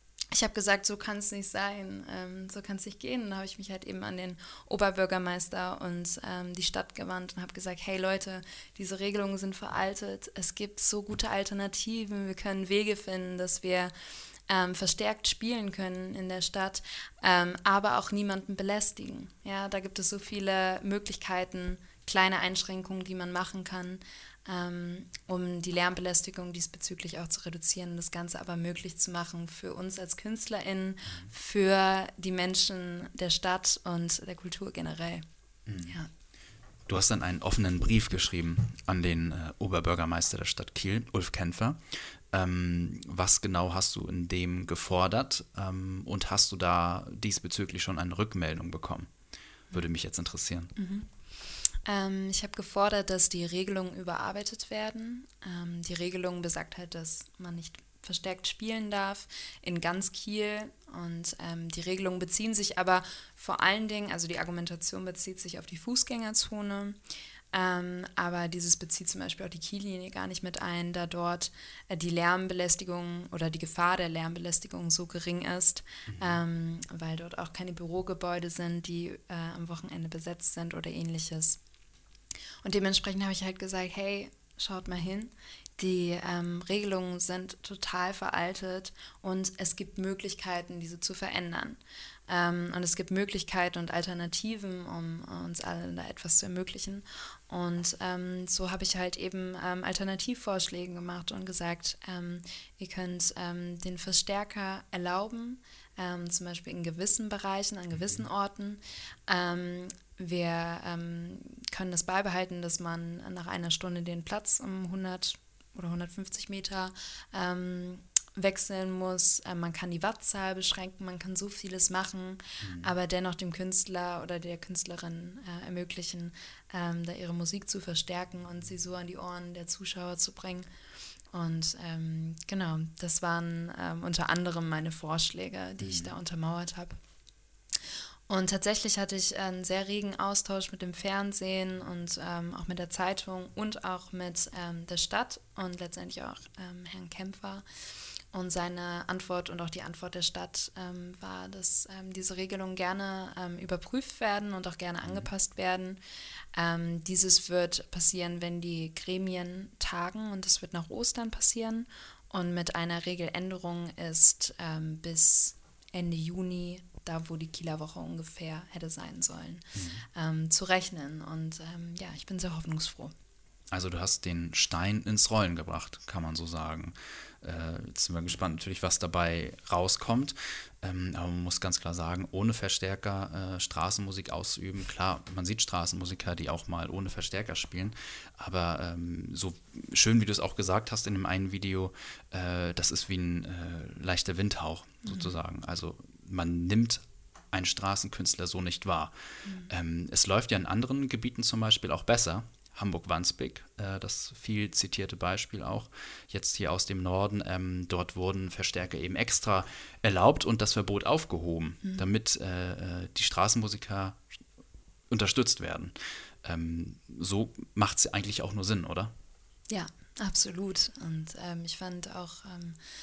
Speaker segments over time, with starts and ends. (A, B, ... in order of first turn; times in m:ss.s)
0:00.3-0:13.9 A
0:14.5-0:35.2 A
0:35.6-0:36.0 B
0:36.9-0:49.1 B
0:49.7-0:50.7 B
0:50.8-0:51.1 A
0:51.8-1:07.0 A
1:07.5-1:21.6 A
1:16.1-1:16.4 B
1:22.6-2:10.7 A
1:47.9-1:48.2 B
2:02.6-2:02.9 B
2:11.3-2:17.0 A
2:15.8-2:16.1 B
2:18.3-2:27.6 A
2:28.3-2:36.0 A
2:35.0-2:35.3 B
2:36.5-2:53.1 A
2:49.7-2:50.0 B
2:53.7-3:19.1 B
3:15.0-3:15.4 A
3:19.4-3:19.7 A
3:19.7-3:34.2 B
3:35.1-3:39.1 B
3:39.7-3:42.8 A